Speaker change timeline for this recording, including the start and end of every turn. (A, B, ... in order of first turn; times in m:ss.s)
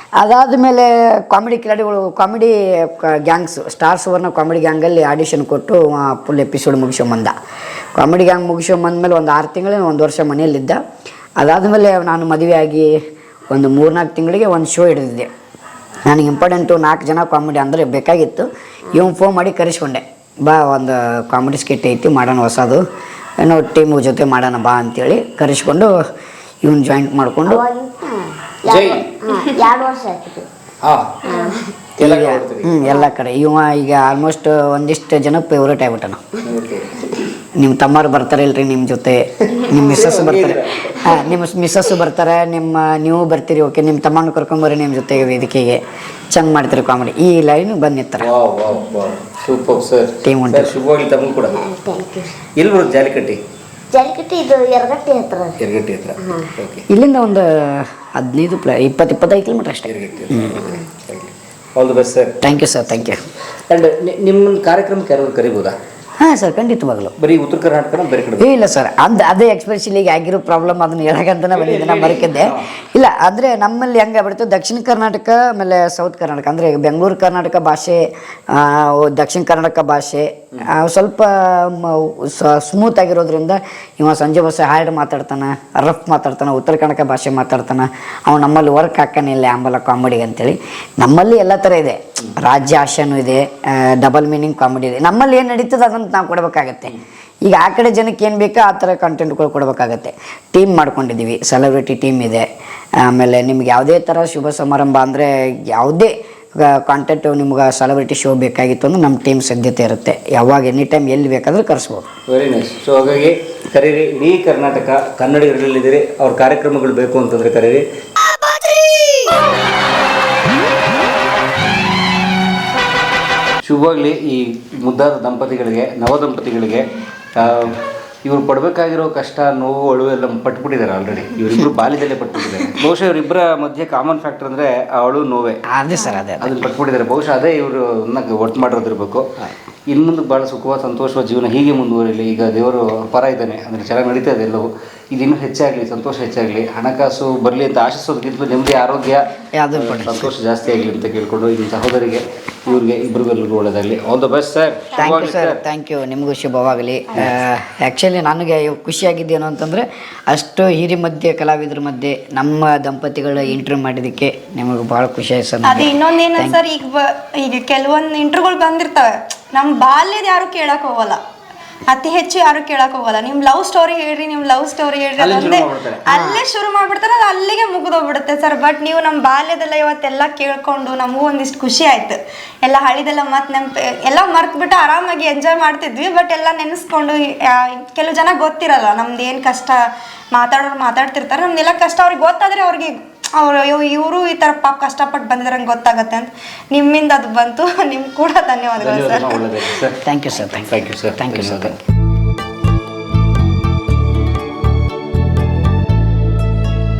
0:00.2-0:07.3 A
0:08.0-0:10.8 A
0:11.4-0:12.9 A
0:13.5-0:15.3 A
0:16.0-0:22.8 A
0:23.4-0:25.9 A
0:26.6-0:27.6 A
0:27.4-0:30.5 B
0:28.7-0:29.1 C
0:30.8-0:31.2 C
0:31.2-0:31.7 B
0:32.0-0:32.9 C
0:32.0-0:36.2 A
0:36.4-0:37.3 C
0:37.6-0:45.8 A
0:39.5-0:41.2 C
0:46.3-0:48.3 A
0:48.2-0:51.6 C
0:50.2-0:50.8 A
0:51.5-0:52.4 B
0:52.6-0:53.4 C
0:53.9-0:55.6 B
0:55.6-0:56.8 C
0:56.2-0:56.5 B
0:56.9-1:00.5 A
0:59.8-1:02.3 C
1:00.6-1:00.9 B
1:02.4-1:03.2 A
1:03.7-1:05.8 C
1:06.2-1:07.1 A
1:07.2-1:08.5 C
1:08.4-1:42.4 A
1:11.5-1:12.7 C
1:43.0-1:52.1 A
1:52.3-1:57.8 C
2:03.6-2:15.6 C
2:15.7-2:16.6 A
2:16.4-2:35.6 C
2:29.5-2:30.3 A
2:34.9-2:46.6 A
2:45.6-2:51.2 D
2:51.9-3:09.8 D
2:55.2-2:56.0 C
2:56.1-2:56.4 A
3:10.3-3:19.4 D
3:18.8-3:21.8 C
3:20.0-3:21.8 A